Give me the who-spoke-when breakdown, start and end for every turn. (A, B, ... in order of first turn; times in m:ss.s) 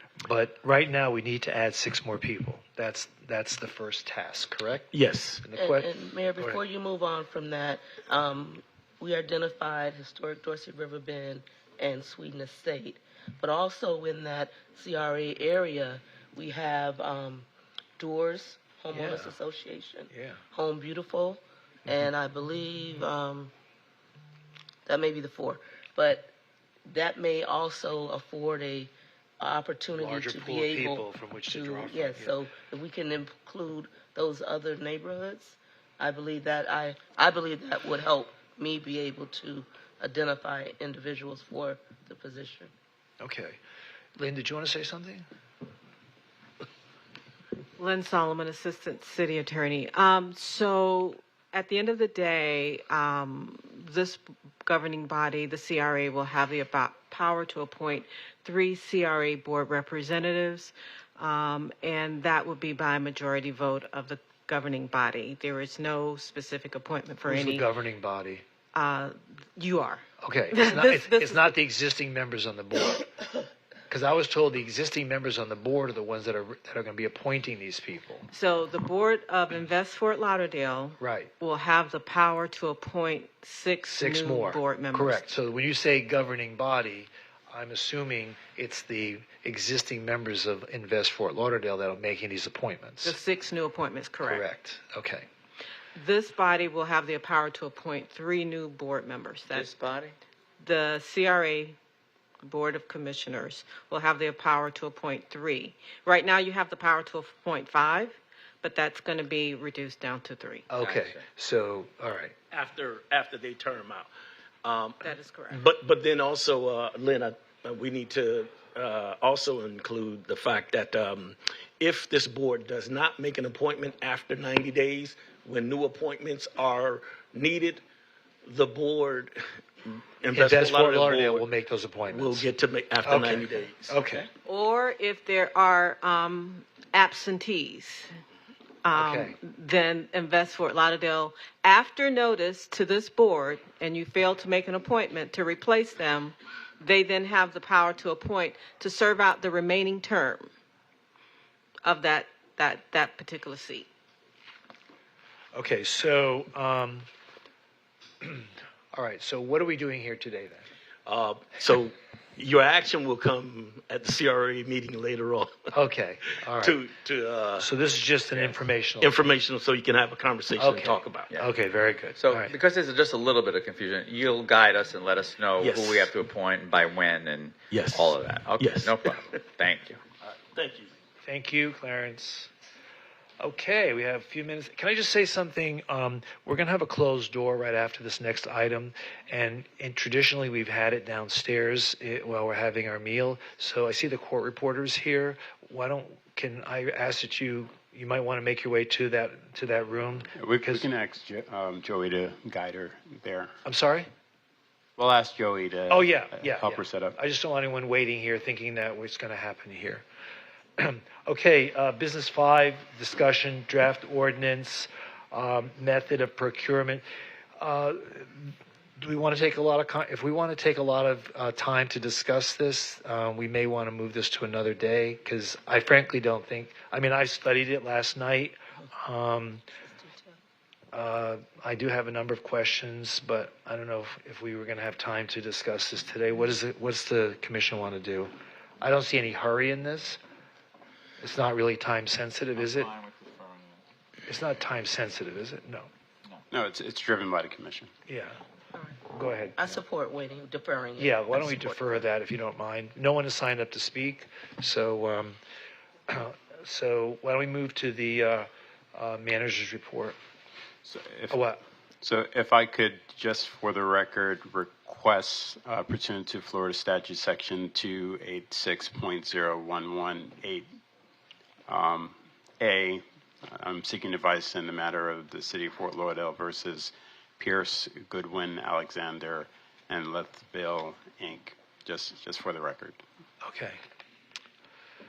0:00.2-0:04.9 A
0:04.9-0:05.4 B
0:05.4-0:06.6 A
0:05.5-0:17.5 C
0:18.0-0:23.5 C
0:18.9-0:19.4 A
0:20.1-0:20.4 A
0:24.9-0:26.3 C
0:26.9-0:42.7 C
0:30.0-0:32.4 A
0:43.2-0:43.6 A
0:44.2-0:45.3 A
0:47.8-1:07.7 D
1:07.2-1:08.4 A
1:08.7-1:11.6 D
1:10.2-1:13.1 A
1:13.9-1:18.3 A
1:18.3-1:25.3 D
1:21.0-1:21.3 A
1:23.9-1:33.2 A
1:33.0-1:34.4 D
1:34.2-1:35.3 A
1:36.0-1:39.7 D
1:39.5-1:40.1 E
1:40.6-1:41.8 D
1:42.4-1:50.7 D
1:50.7-1:52.3 A
1:50.8-1:51.2 E
1:52.5-1:54.1 B
1:54.6-2:07.8 B
1:55.0-1:55.7 D
2:08.4-2:11.5 B
2:10.3-2:12.5 A
2:12.1-2:14.0 B
2:13.0-2:14.3 A
2:14.4-2:18.1 D
2:18.8-2:30.5 D
2:18.9-2:19.4 A
2:31.8-2:33.9 D
2:35.5-2:37.1 A
2:38.2-2:40.7 A
2:41.0-2:45.5 B
2:45.7-2:46.8 A
2:46.6-2:47.7 B
2:47.6-2:49.2 A
2:48.4-2:51.3 B
2:50.5-2:52.5 A
2:52.2-3:00.0 E
2:55.6-2:56.1 B
2:57.7-2:59.2 B
3:00.5-3:00.9 B
3:01.2-3:02.5 A
3:03.4-3:20.9 A
3:20.4-3:23.5 F
3:23.6-3:24.1 A
3:25.0-3:27.1 F
3:25.9-3:30.0 A
3:30.8-3:37.0 A
3:37.6-3:49.6 A
3:50.9-4:00.2 A
4:01.2-4:03.0 A
4:02.6-4:03.6 E
4:04.2-4:05.9 A
4:06.5-4:07.9 F
4:08.1-4:08.4 A
4:08.7-4:09.0 C
4:09.1-4:09.8 A
4:09.6-4:12.0 C
4:11.0-4:15.4 A
4:16.1-4:20.2 A
4:20.8-4:21.4 F
4:21.3-4:21.6 A
4:22.0-4:30.6 F
4:31.7-4:43.0 F
4:43.4-4:43.8 A